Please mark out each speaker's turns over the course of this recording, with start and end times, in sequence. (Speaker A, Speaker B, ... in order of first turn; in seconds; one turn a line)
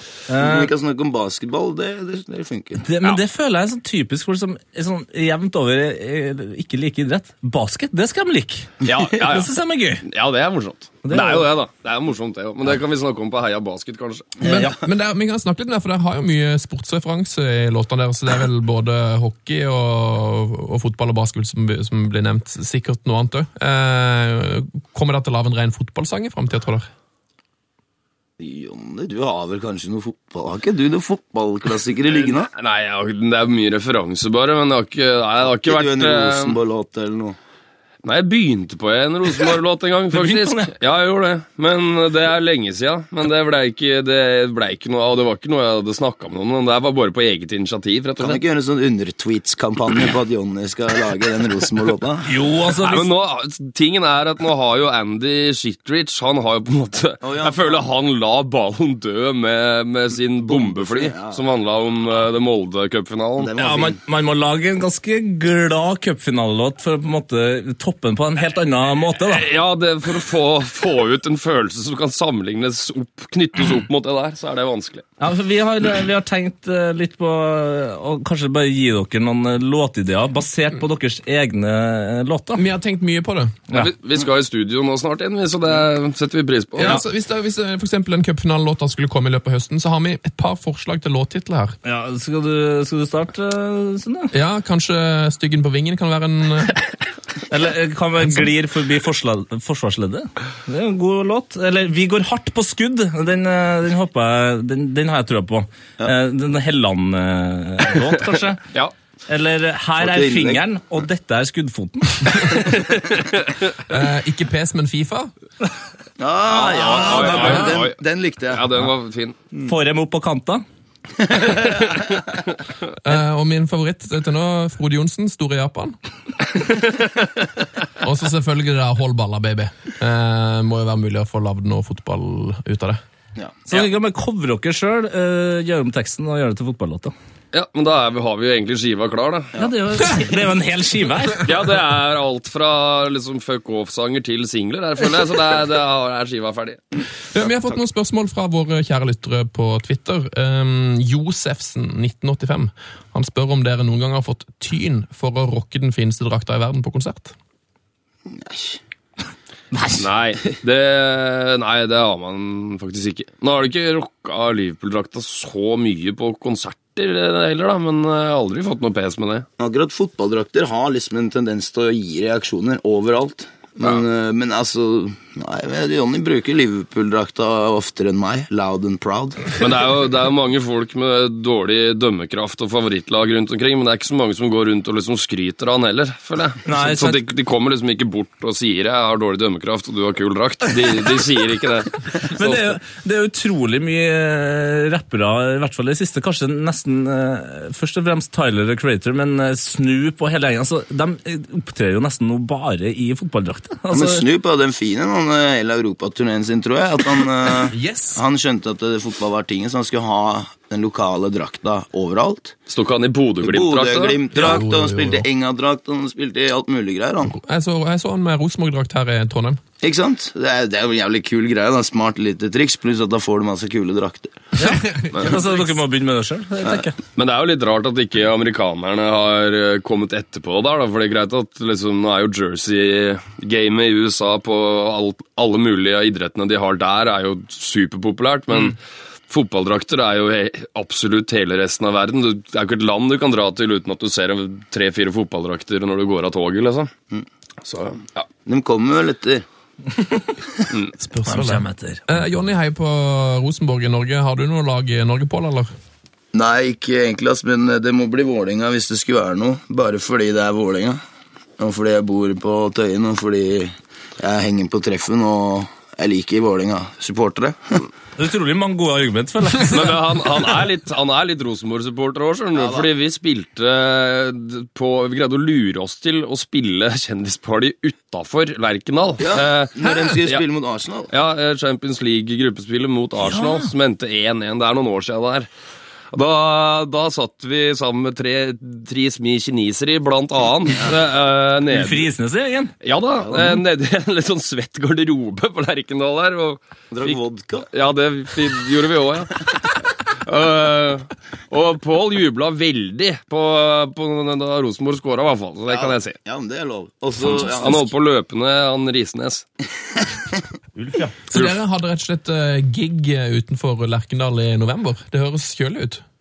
Speaker A: 0.3-0.7
Speaker B: 0.4-2.8
Speaker A: 2.8-10.0
Speaker C: 8.8-14.4
Speaker A: 11.0-11.5
Speaker B: 14.4-14.8
Speaker D: 14.4-26.9
Speaker B: 28.4-32.5
Speaker C: 32.1-36.6
Speaker B: 35.4-37.4
Speaker C: 38.0-48.4
Speaker A: 40.1-40.7
Speaker B: 48.2-52.3
Speaker A: 52.3-53.1
Speaker C: 52.8-63.6
Speaker B: 57.2-57.9
Speaker B: 60.4-61.4
Speaker B: 63.4-64.0
Speaker A: 63.6-69.5
Speaker C: 69.3-75.0
Speaker A: 75.2-82.6
Speaker D: 82.5-83.6
Speaker C: 83.7-87.0
Speaker D: 86.8-91.8
Speaker A: 91.8-94.3
Speaker D: 94.3-96.8
Speaker A: 97.5-108.6
Speaker A: 109.3-112.6
Speaker B: 110.0-110.6
Speaker C: 112.9-113.3
Speaker D: 113.9-115.3
Speaker B: 116.2-118.7
Speaker C: 116.5-119.4
Speaker A: 116.8-117.8
Speaker A: 119.6-120.6
Speaker B: 121.2-122.1
Speaker D: 123.0-126.0
Speaker D: 128.0-133.0
Speaker B: 133.4-133.7
Speaker A: 133.7-137.1
Speaker C: 137.5-139.5
Speaker A: 139.6-141.5
Speaker C: 141.4-146.8
Speaker D: 147.3-157.3
Speaker B: 158.3-158.8
Speaker A: 159.7-160.0
Speaker C: 160.0-169.5
Speaker B: 169.6-179.4
Speaker C: 179.6-192.7
Speaker A: 186.7-187.2
Speaker A: 192.2-204.2
Speaker B: 203.9-212.6
Speaker D: 207.7-208.2
Speaker C: 212.7-214.2
Speaker B: 213.4-217.4
Speaker D: 214.3-215.3
Speaker D: 217.3-219.6
Speaker B: 219.8-224.5
Speaker A: 224.6-227.0
Speaker D: 224.7-225.7
Speaker C: 227.2-238.8
Speaker C: 239.3-246.9
Speaker C: 247.7-248.3
Speaker B: 248.5-249.4
Speaker D: 251.0-255.7
Speaker A: 251.2-252.1
Speaker B: 256.3-261.0
Speaker B: 261.6-267.9
Speaker A: 268.2-270.0
Speaker C: 269.7-280.4
Speaker B: 272.6-272.9
Speaker B: 279.2-281.1
Speaker C: 281.1-285.5
Speaker A: 283.2-283.7
Speaker C: 286.1-292.1
Speaker A: 291.7-292.7
Speaker C: 292.8-297.2
Speaker B: 293.2-293.6
Speaker B: 296.9-297.7
Speaker C: 297.7-306.2
Speaker B: 305.7-307.9
Speaker C: 307.2-309.5
Speaker A: 310.8-311.1
Speaker D: 311.3-316.0